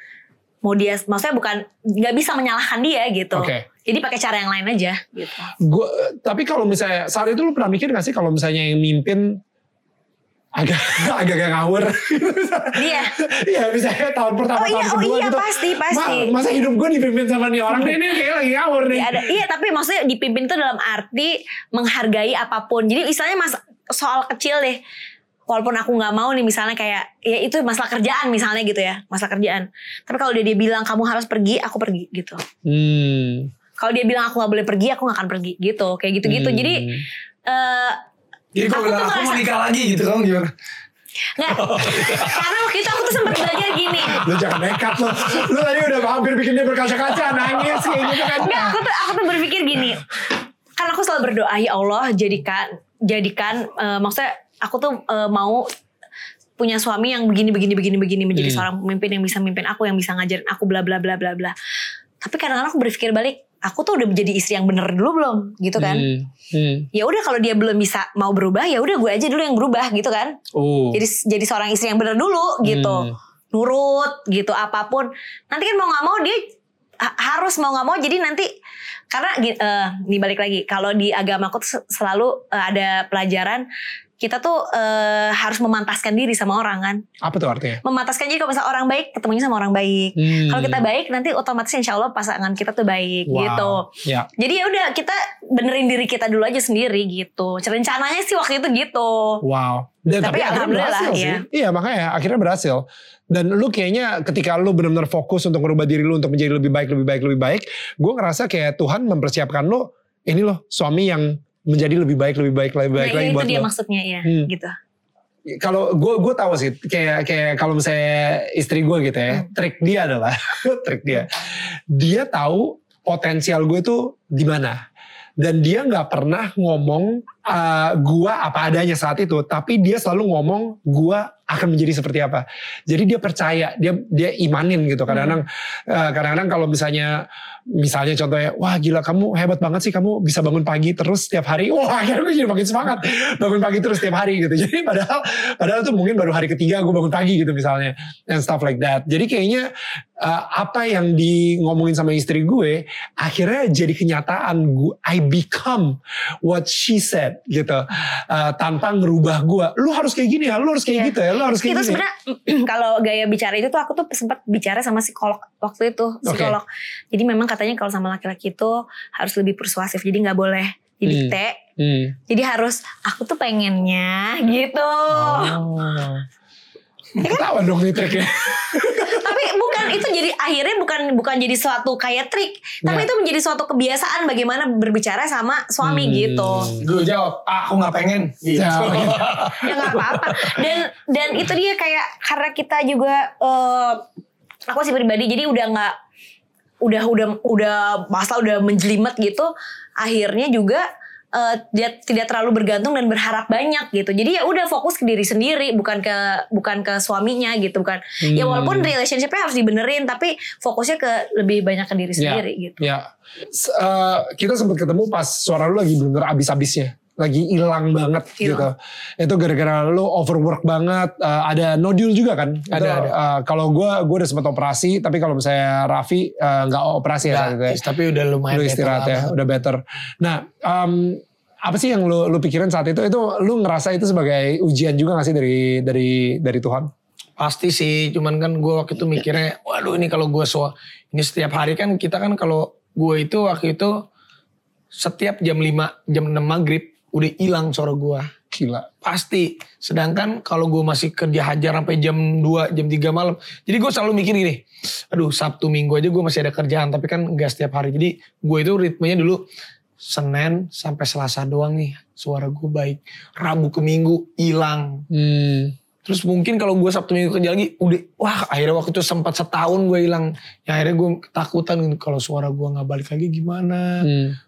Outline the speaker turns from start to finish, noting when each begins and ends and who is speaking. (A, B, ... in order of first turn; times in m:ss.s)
0:00.6-0:05.5 A
0:03.4-0:03.7 B
0:05.6-0:09.4 B
0:10.6-0:19.4 B
0:12.8-0:13.1 A
0:14.6-0:16.3 A
0:18.9-0:24.8 A
0:25.5-0:32.4 A
0:32.7-0:33.5 B
0:33.8-0:36.9 A
0:36.2-0:37.0 B
0:37.5-0:38.0 A
0:38.5-0:40.5 C
0:38.7-0:39.4 A
0:41.4-0:44.3 A
0:41.5-0:42.6 C
0:43.3-0:43.6 C
0:44.1-0:48.8 B
0:44.7-0:45.0 C
0:48.2-0:50.2 A
0:50.8-0:55.7 A
0:56.6-1:01.5 A
0:58.4-0:58.7 B
1:02.2-1:06.1 A
1:05.8-1:06.9 B
1:06.9-1:10.4 A
1:10.5-1:11.0 B
1:10.9-1:16.4 A
1:12.6-1:13.2 B
1:17.0-1:18.5 A
1:19.1-1:23.6 A
1:24.2-1:27.0 A
1:27.2-1:27.8 B
1:27.8-1:39.4 A
1:30.2-1:30.8 B
1:33.3-1:34.3 B
1:39.4-1:53.7 B
1:40.2-1:41.4 A
1:53.0-1:54.7 A
1:55.5-2:04.8 B
2:05.4-2:29.7 B
2:15.1-2:15.4 A
2:30.2-2:42.0 B
2:40.9-2:51.6 A
2:46.2-2:46.6 B
2:51.1-2:52.2 B
2:52.3-2:55.6 A
2:55.1-2:56.2 B
2:57.2-2:57.6 A
2:57.2-2:59.4 B
2:58.1-3:06.7 A
3:05.8-3:06.8 B
3:06.8-3:10.7 C
3:08.6-3:09.7 B
3:09.6-3:14.0 A
3:14.7-3:15.9 A
3:16.8-3:32.8 A
3:28.2-3:28.9 B
3:32.2-3:47.8 B
3:38.4-3:38.7 A
3:42.7-3:43.2 C
3:47.3-3:49.4 C
3:48.5-3:56.9 B
3:57.4-4:04.0 C
4:04.9-4:08.3 C
4:08.5-4:08.9 B
4:09.0-4:19.4 C
4:20.0-4:25.0 C
4:25.1-4:25.8 B
4:26.1-4:34.1 C
4:34.0-4:34.4 B